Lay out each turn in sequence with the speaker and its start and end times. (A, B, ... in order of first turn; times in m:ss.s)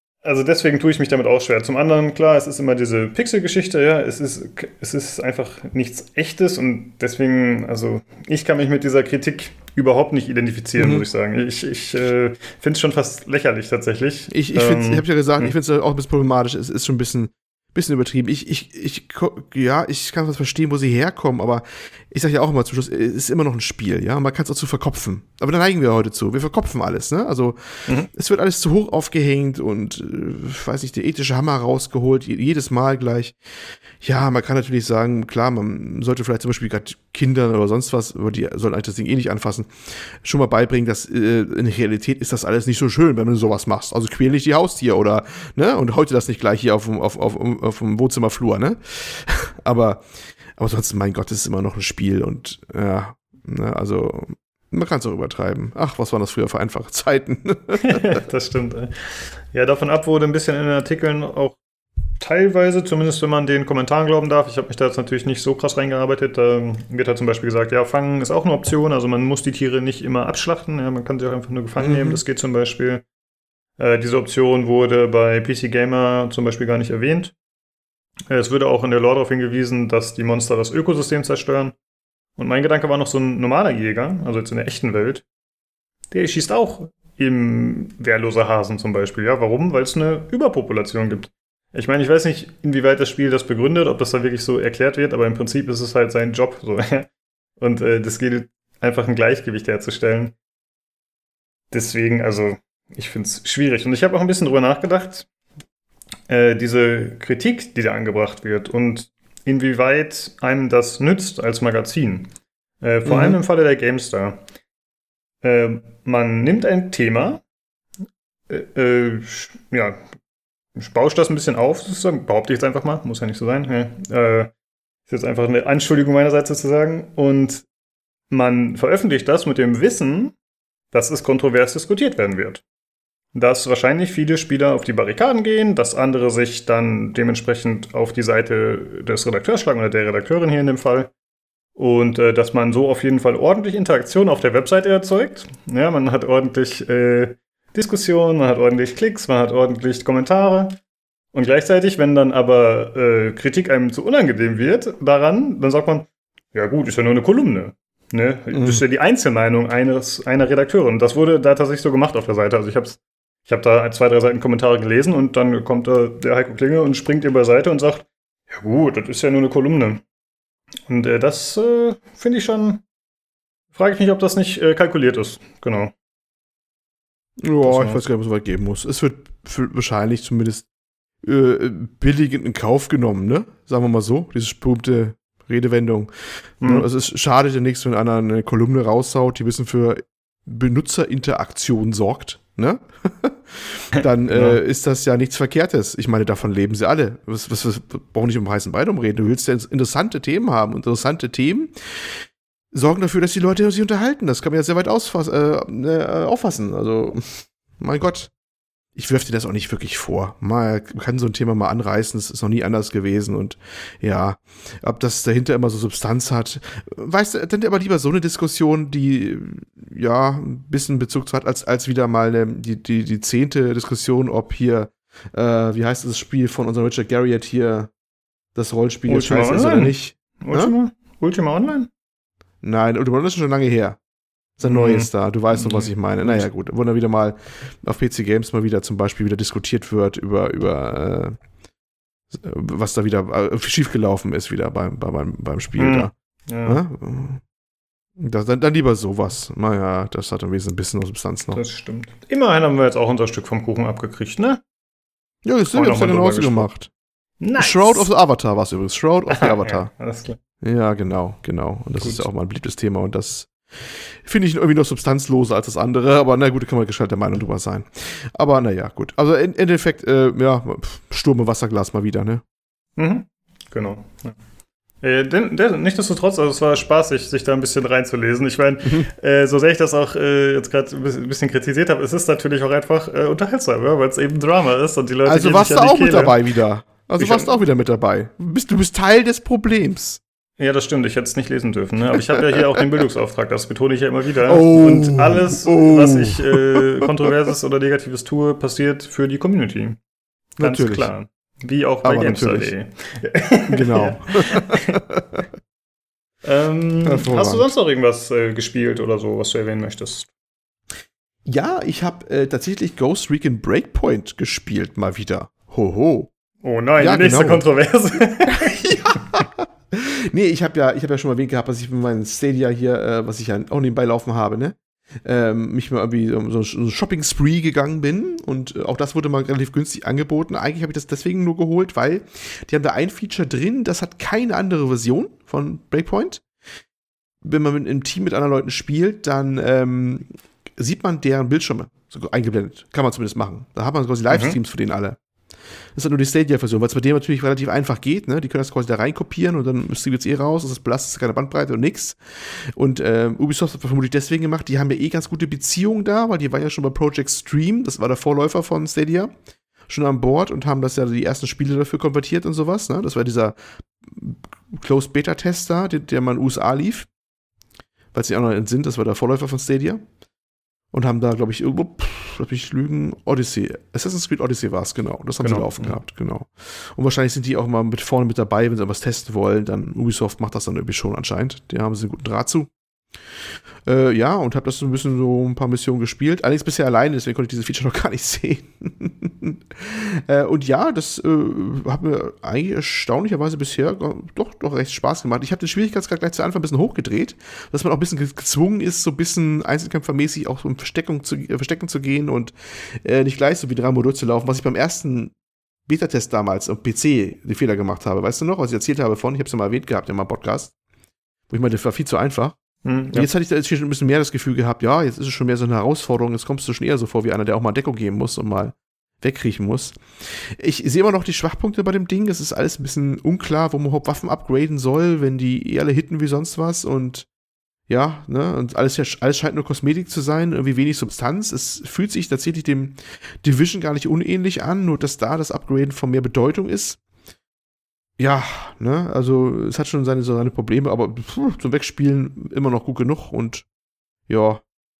0:00.2-0:15.5 A
0:10.8-0:11.0 B
0:14.3-0:58.2 B
0:57.8-0:58.9 A
0:59.5-1:01.6 A
1:02.2-1:13.0 A
1:11.8-1:12.2 B
1:13.8-1:17.3 A
1:18.3-1:21.7 A
1:22.4-1:25.2 A
1:26.1-1:37.1 A
1:37.6-1:40.3 A
1:41.7-1:45.3 A
1:46.3-1:52.3 A
1:52.8-1:54.4 A
1:53.0-1:53.4 B
1:55.4-1:57.4 A
1:58.5-2:00.0 A
2:00.8-2:04.5 A
2:05.1-2:07.6 A
2:08.3-2:10.3 A
2:10.9-2:12.6 A
2:13.3-2:21.1 A
2:21.8-2:30.8 A
2:31.3-2:50.0 A
2:38.5-2:38.8 B
2:50.9-2:52.8 A
2:53.7-2:55.9 A
2:57.4-3:00.6 B
2:57.6-2:58.0 A
3:01.2-3:28.3 B
3:06.6-3:06.9 A
3:14.0-3:14.6 A
3:29.0-3:47.9 B
3:48.5-3:50.7 B
3:49.1-3:51.9 A
3:52.6-3:54.0 B
3:54.6-4:01.4 B
3:54.6-3:56.4 A
4:02.3-4:06.1 B
4:05.8-4:06.8 A
4:06.6-4:07.4 B
4:08.2-4:11.6 B
4:11.5-4:14.6 A
4:15.4-4:16.9 B
4:15.7-4:16.7 A
4:17.4-4:18.1 A
4:17.6-4:19.9 B
4:19.3-4:20.4 A
4:20.6-4:32.4 B
4:22.0-4:22.2 A
4:33.0-4:34.4 A
4:35.0-4:46.4 A
4:45.2-4:50.2 B
4:47.2-4:47.5 A
4:50.6-5:00.0 A
4:54.4-4:56.8 B
5:00.6-5:01.1 B
5:00.6-5:05.0 A
5:02.0-5:02.7 B
5:03.7-5:05.4 B
5:06.4-5:10.3 A
5:07.0-5:07.7 B
5:11.4-5:16.3 B
5:16.6-5:18.8 A
5:17.0-5:17.6 B
5:18.4-5:36.4 B
5:37.4-5:45.2 B
5:44.3-5:44.6 A
5:46.0-5:59.3 B
5:59.9-6:07.1 B
6:08.1-6:10.0 B
6:10.9-6:22.7 B
6:15.4-6:16.0 A
6:23.8-6:45.3 B
6:45.9-6:50.7 B
6:51.5-6:52.6 B
6:52.8-6:53.3 A
6:53.1-7:07.3 B
7:07.9-7:17.0 B
7:18.2-7:23.6 B
7:24.3-7:24.6 B